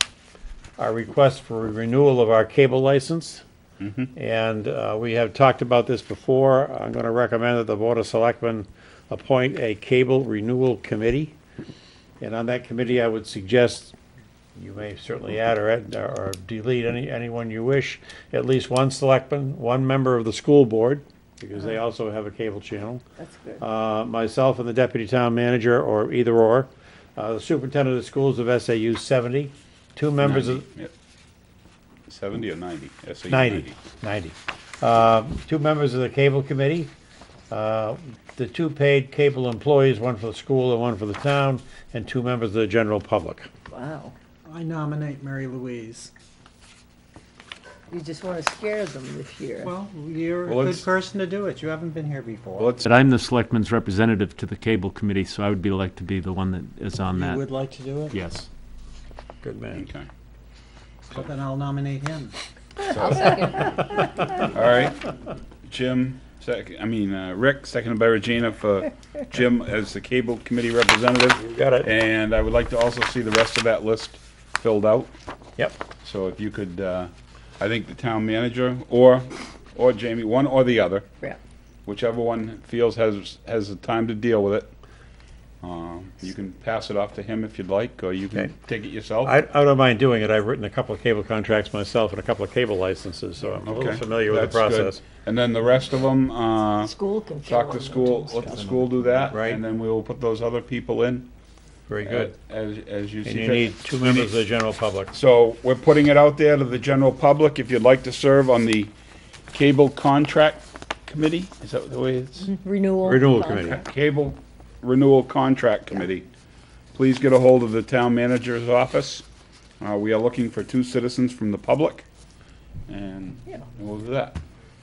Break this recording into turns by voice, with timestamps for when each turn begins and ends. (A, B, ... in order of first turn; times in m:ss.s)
0:00.8-0:03.4 A
0:03.8-0:04.1 B
0:04.1-0:11.4 A
0:12.2-0:14.0 A
0:14.6-0:23.0 A
0:23.2-0:23.6 C
0:23.6-0:30.7 A
0:30.2-0:30.9 B
0:32.1-0:33.7 B
0:33.3-0:36.9 A
0:37.5-0:43.5 A
0:43.7-0:44.1 C
0:44.5-0:46.1 D
0:47.9-0:49.7 C
0:49.6-0:52.8 D
0:50.4-0:50.8 B
0:52.6-0:52.9 B
0:52.8-0:57.5 E
0:57.1-0:58.2 D
0:58.1-0:58.5 E
0:59.4-0:59.8 A
0:59.7-1:00.1 B
1:01.1-1:02.3 D
1:02.8-1:03.8 B
1:03.2-1:03.7 C
1:04.4-1:05.1 B
1:05.7-1:15.1 B
1:11.4-1:11.9 A
1:16.0-1:21.1 B
1:21.9-1:24.7 B
1:25.6-1:29.3 B
1:29.2-1:35.0 A
1:33.6-1:41.3 B
1:36.8-1:38.7 C
1:38.5-1:39.2 E
1:39.3-1:39.6 A
1:41.9-1:42.3 A
1:42.0-1:44.4 B
1:43.2-1:45.1 A
1:45.1-1:48.9 B
1:49.5-1:52.5 B
1:52.5-1:53.8 C
1:53.0-1:53.8 A
1:53.6-1:56.3 B
1:57.0-1:59.2 B
1:59.8-2:02.0 B
2:02.9-2:04.4 B